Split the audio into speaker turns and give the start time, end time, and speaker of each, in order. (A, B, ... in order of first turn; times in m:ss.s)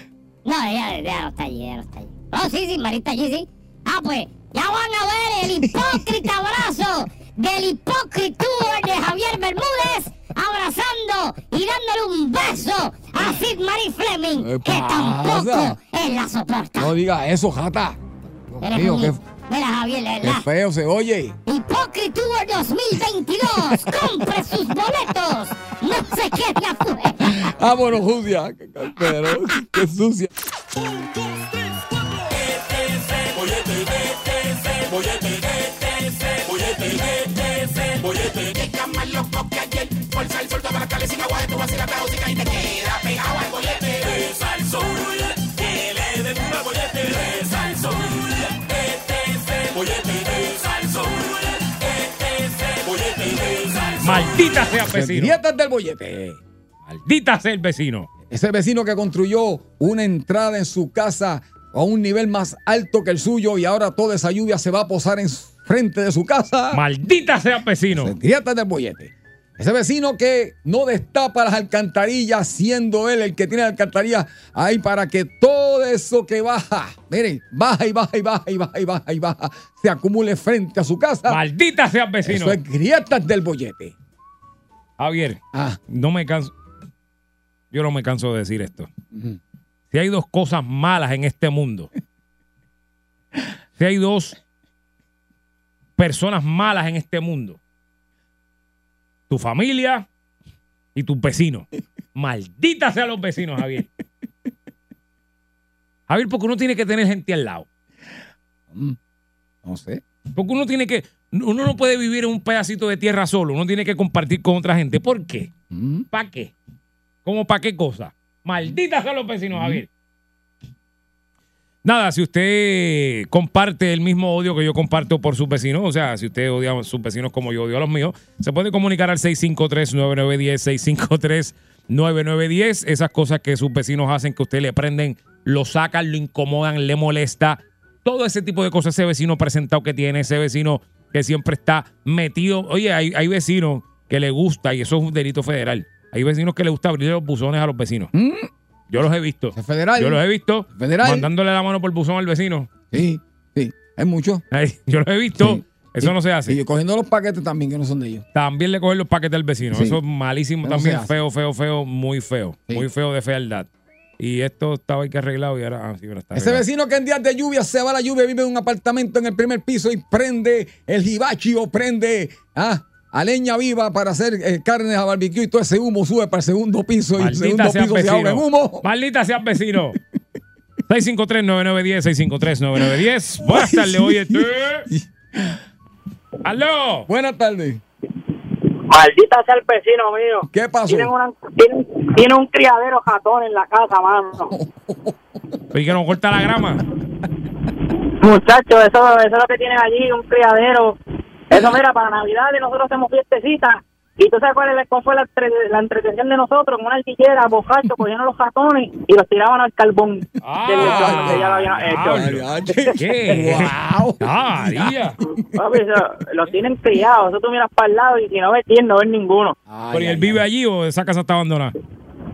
0:00.4-0:16.9 A
0:14.4-0:15.8 B
0:16.8-0:19.2 B
0:18.6-0:20.5 A
0:20.2-0:21.4 B
0:21.5-0:27.6 A
0:27.3-0:30.3 B
0:32.2-0:54.4 C
0:54.0-0:55.4 D
0:54.9-0:56.4 B
0:56.9-0:58.1 D
0:58.3-1:06.8 B
1:06.7-1:08.1 D
1:08.0-1:21.4 B
1:21.3-1:22.6 D
1:22.2-1:24.0 B
1:25.0-1:26.5 D
1:25.5-1:25.8 B
1:27.7-1:28.9 D
1:29.1-1:29.4 B
1:29.9-1:31.9 D
1:33.8-1:34.4 D
1:36.0-1:37.6 D
1:39.3-1:40.1 D
1:41.0-1:43.9 D
1:46.1-1:47.7 D
1:48.7-1:49.0 B
1:49.6-1:50.0 B
1:50.4-1:55.5 D
1:55.7-1:56.1 B
1:56.1-1:56.5 D
1:57.2-1:59.9 D
1:59.5-1:59.8 B
2:01.8-2:28.1 D
2:28.1-2:28.5 B
2:28.9-2:32.7 D
2:29.5-2:31.3 B
2:32.9-2:34.4 B
2:34.5-2:36.6 D
2:35.4-2:38.2 B
2:38.4-2:46.6 D
2:39.7-2:40.0 B
2:40.6-2:41.1 B
2:46.3-2:58.9 B
2:57.2-3:00.0 D
3:00.9-3:04.9 D
3:03.4-3:05.6 B
3:06.4-3:07.1 D
3:07.1-3:07.8 B
3:08.9-3:14.5 E
3:10.5-3:11.1 B
3:14.4-3:15.2 B
3:15.7-3:16.8 D
3:18.2-3:21.0 E
3:21.5-3:32.3 E
3:30.4-3:35.2 D
3:30.7-3:35.0 B
3:35.6-3:39.6 E
3:39.7-3:40.4 B
3:39.9-3:41.8 D